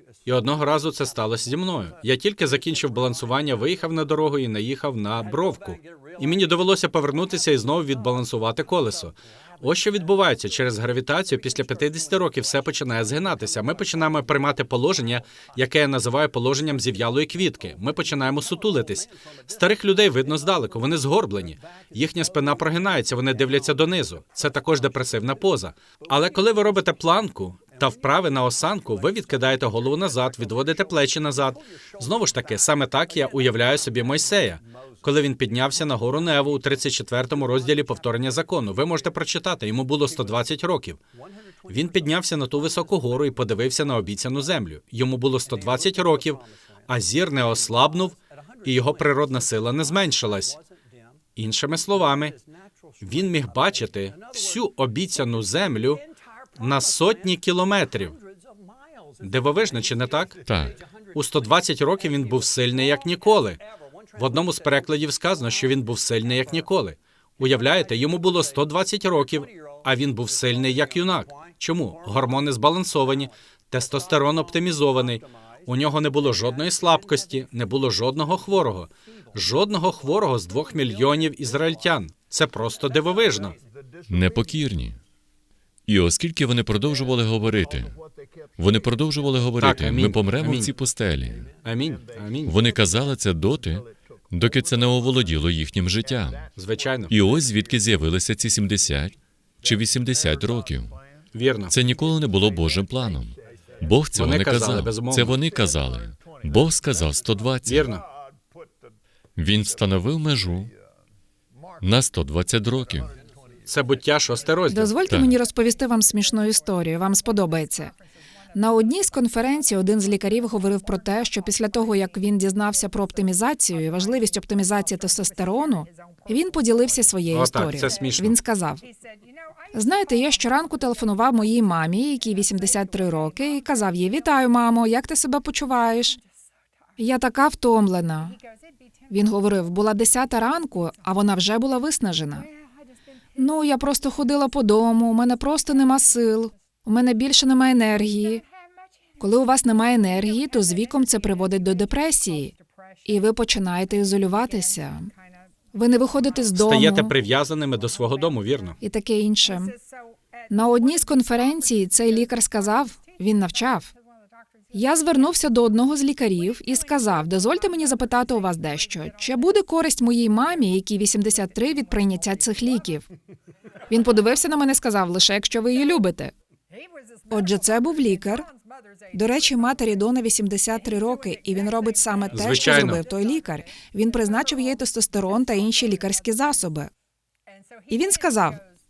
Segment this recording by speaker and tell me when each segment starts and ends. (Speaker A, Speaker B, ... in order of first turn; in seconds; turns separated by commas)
Speaker A: 0.3-41.0, Speaker A: 41.7-50.6, Speaker A: 51.4-52.4, Speaker A: 53.0-56.0, Speaker A: 56.6-58.2, Speaker A: 59.2-60.4, Speaker B: 60.5-60.8, Speaker A: 61.1-63.6, Speaker A: 64.1-83.6, Speaker B: 84.1-85.0, Speaker B: 85.9-88.0, Speaker B: 88.6-91.5, Speaker A: 89.6-90.7, Speaker A: 91.6-92.6, Speaker B: 92.5-96.5, Speaker A: 96.6-97.1, Speaker B: 97.1-101.0, Speaker A: 101.3-101.7, Speaker B: 101.7-107.9, Speaker A: 104.1-105.4, Speaker A: 107.7-108.0, Speaker B: 109.4-110.7, Speaker B: 111.8-113.1, Speaker A: 113.7-114.9, Speaker C: 114.7-118.0, Speaker B: 115.1-115.4, Speaker C: 118.5-128.8, Speaker A: 127.3-128.4, Speaker C: 129.7-136.2, Speaker C: 137.0-138.4, Speaker C: 139.1-142.5, Speaker C: 143.4-148.4, Speaker C: 149.2-152.5, Speaker C: 153.1-155.1, Speaker C: 155.7-157.1, Speaker A: 156.6-158.8, Speaker C: 158.8-159.8, Speaker C: 160.5-163.9, Speaker C: 164.7-173.1, Speaker C: 173.9-176.3, Speaker C: 177.3-178.5, Speaker C: 179.1-186.9, Speaker A: 182.3-183.0, Speaker C: 187.9-188.6